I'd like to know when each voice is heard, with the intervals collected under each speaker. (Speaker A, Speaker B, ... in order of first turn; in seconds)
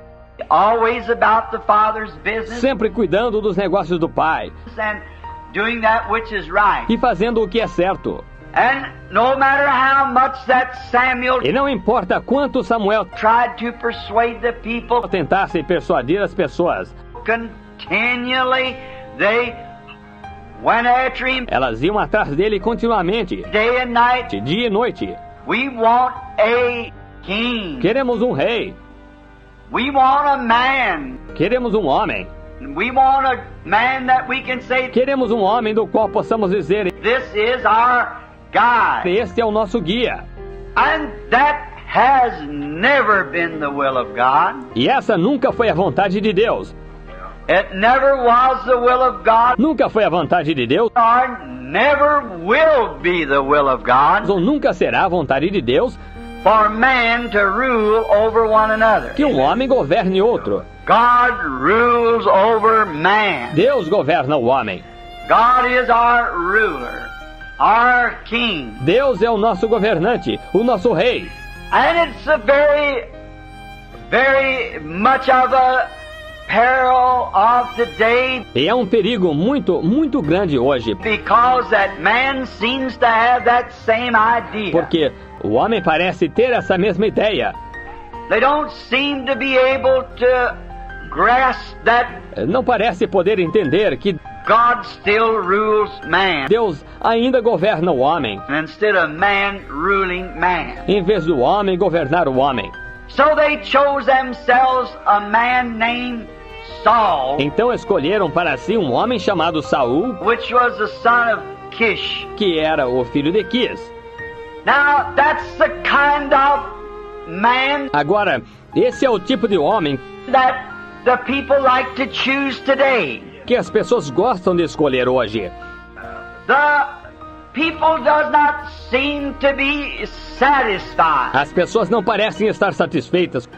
Speaker A: 0.5-2.7, 4.7-6.9, 8.5-11.5, 13.2-15.1, 17.2-19.6, 20.6-21.5, 23.5-24.3, 25.4-27.9, 29.7-31.2, 32.6-35.0, 37.0-39.1, 40.8-44.7, 47.5-49.6, 50.9-54.4, 56.4-59.3, 60.9-63.6, 65.3-68.8, 71.7-73.0, 74.1-75.9, 76.5-78.4, 81.0-84.9, 88.3-90.5, 91.1-92.2, 94.5-96.5, 98.5-100.9, 103.1-107.5, 110.2-112.3, 114.6-117.9, 120.3-123.3, 126.5-126.9, 127.5-131.4
Speaker B: 2.5-4.5, 6.9-8.2, 11.4-13.1, 15.0-16.9, 21.5-23.5, 24.3-25.2, 27.8-28.8, 31.3-32.3, 34.9-36.9, 39.0-40.2, 44.7-46.7, 49.6-50.9, 54.2-56.0, 59.1-60.6, 63.5-64.8, 68.8-71.3, 78.5-81.0, 84.7-87.5, 92.3-94.2, 96.5-98.4, 100.9-102.7, 107.4-110.2, 112.4-113.9, 117.9-120.0, 123.5-125.5, 131.3-133.5